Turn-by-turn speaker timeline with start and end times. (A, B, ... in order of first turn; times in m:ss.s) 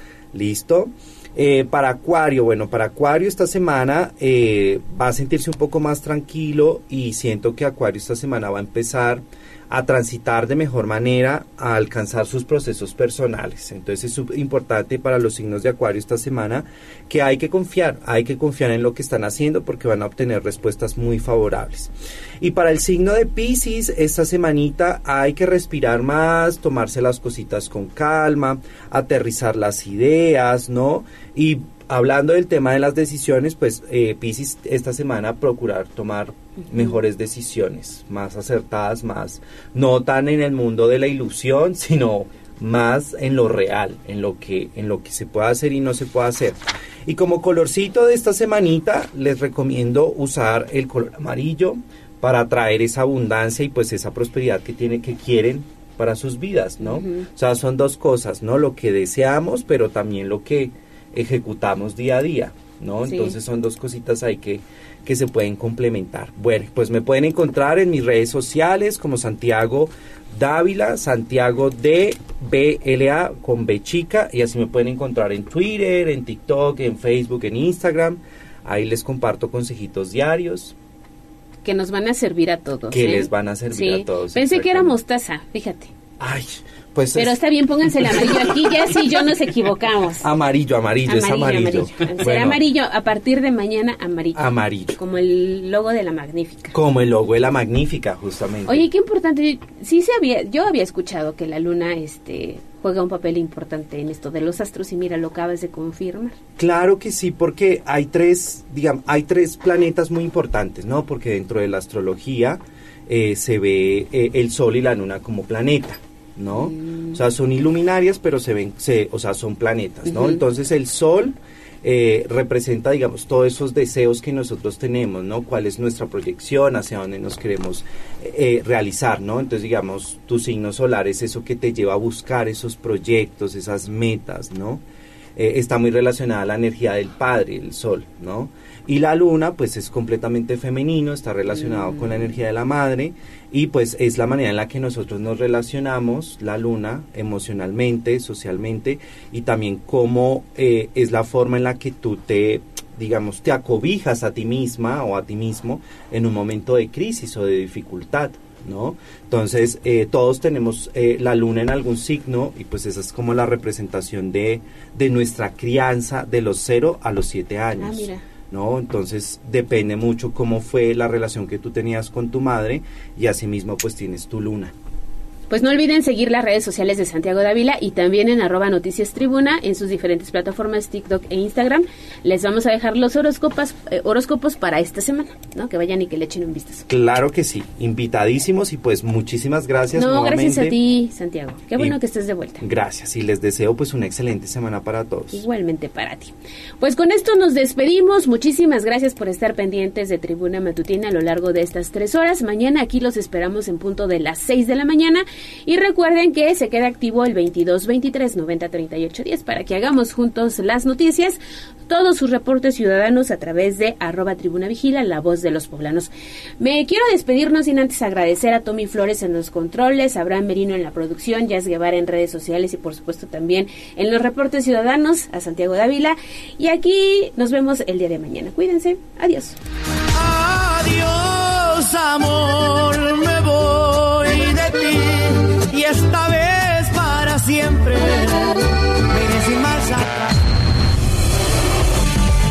0:00.3-1:20.7 A
0:56.8-0:57.2 B
1:03.0-1:03.3 B
1:21.6-1:25.9 B
1:22.9-1:25.0 A
1:26.2-1:27.4 A
1:27.1-1:30.2 B
1:28.0-1:28.7 A
1:30.2-1:32.6 A
1:31.0-1:36.7 B
1:34.3-1:34.9 A
1:36.7-1:38.8 A
1:38.7-1:46.4 B
1:46.6-2:14.8 A
1:56.5-1:57.2 B
2:00.1-2:00.4 B
2:15.4-2:54.7 A
2:47.8-2:48.2 B
2:55.5-3:06.8 B
3:06.9-3:10.8 A
3:09.9-3:12.6 B
3:12.6-3:15.4 A
3:15.3-3:49.6 B
3:50.2-4:00.3 C